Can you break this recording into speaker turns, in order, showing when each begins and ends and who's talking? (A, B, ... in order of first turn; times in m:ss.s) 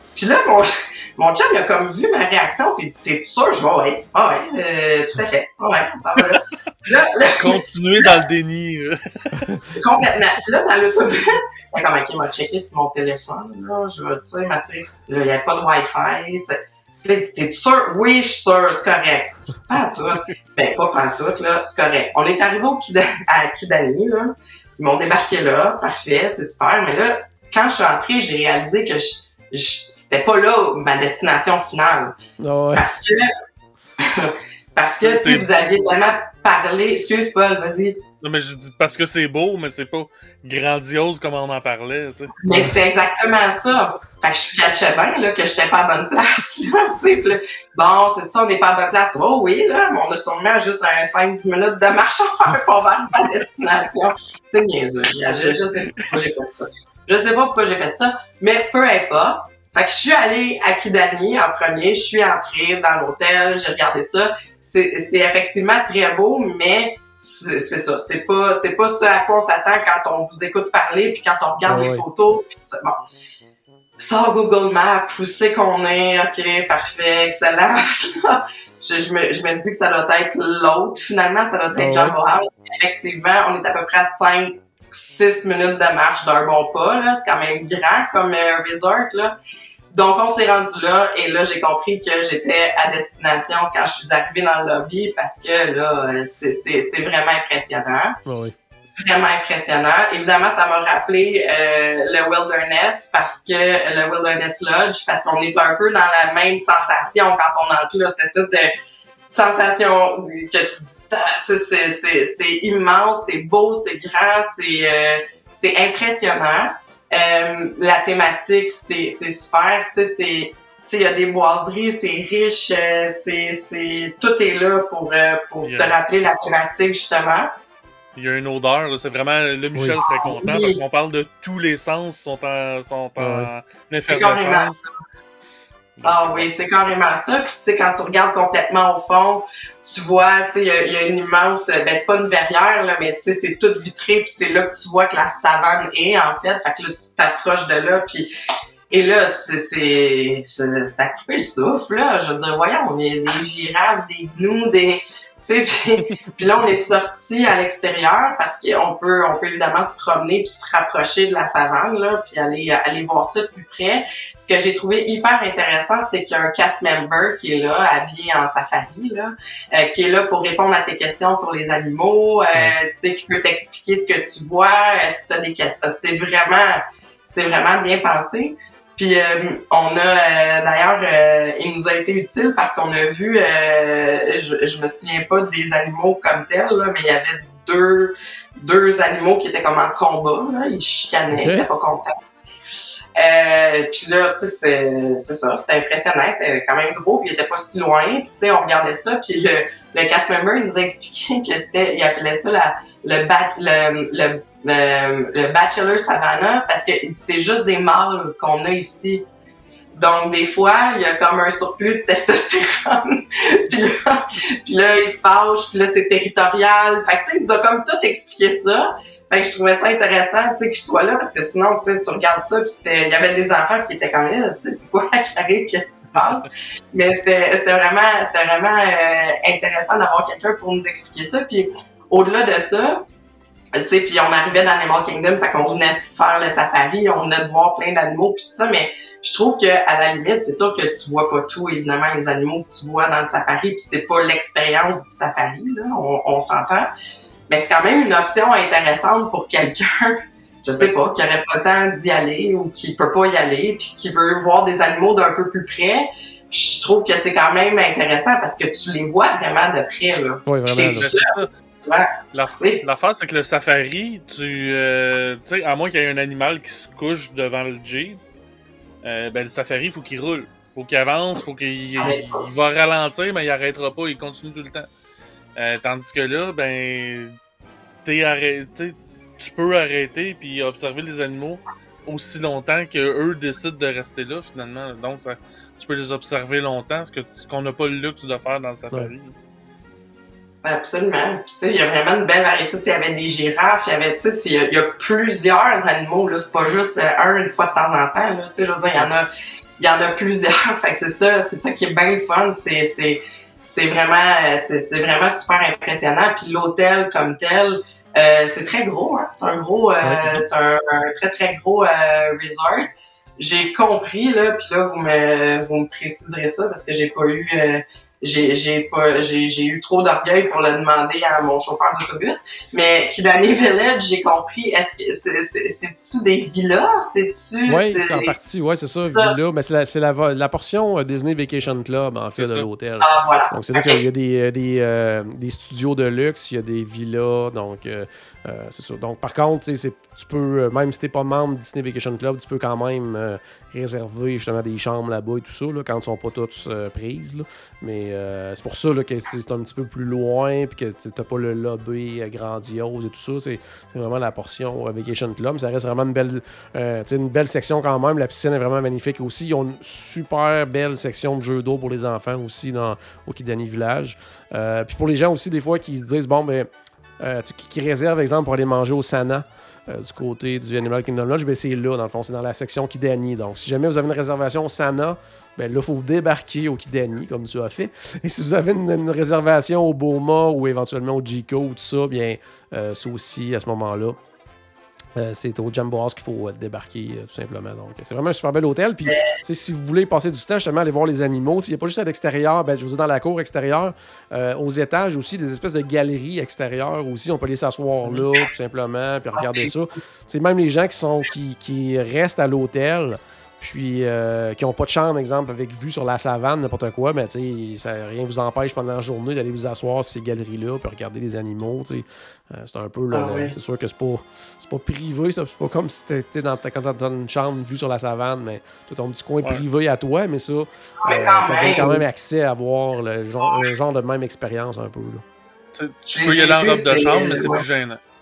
0:00.1-0:08.1 A
0:07.4-0:09.5 B
0:09.7-0:32.1 A
0:32.4-0:32.8 C
0:32.7-0:33.3 A
0:34.0-0:38.0 A
0:35.0-0:35.5 B
0:38.2-0:42.4 B
0:42.4-1:13.0 A
0:42.5-0:42.7 C
0:55.3-0:55.6 B
1:11.6-1:12.0 C
1:14.0-1:29.3 A
1:21.8-1:22.1 C
1:29.9-1:38.2 A
1:38.2-1:38.5 C
1:39.0-1:48.7 A
1:49.2-2:07.5 A
2:05.6-2:05.9 B
2:08.2-2:14.8 B
2:10.0-2:10.8 A
2:13.2-2:13.5 C
2:14.1-2:14.9 A
2:16.0-2:16.5 B
2:16.0-2:28.3 A
2:28.9-3:12.1 A
3:11.3-3:11.7 C
3:13.2-3:29.2 A
3:29.9-3:53.0 A
3:53.8-4:06.9 A
4:07.5-4:21.3 A
4:20.4-4:21.1 C
4:21.0-4:21.5 B
4:21.8-4:22.8 A
4:22.3-4:28.2 B
4:29.0-4:34.9 B
4:32.0-4:32.4 A
4:35.6-4:37.3 B
4:38.0-4:49.3 B
4:50.6-4:59.3 A
4:59.8-5:28.4 A
5:10.0-5:10.4 C
5:27.7-6:24.2 C
5:32.4-5:32.6 B
5:33.0-5:34.0 A
6:25.2-7:05.2 C
6:29.0-6:29.4 A
6:39.3-6:39.7 A
6:53.1-6:53.6 A
7:01.0-7:02.0 A
7:05.7-7:08.0 B
7:06.1-7:07.6 A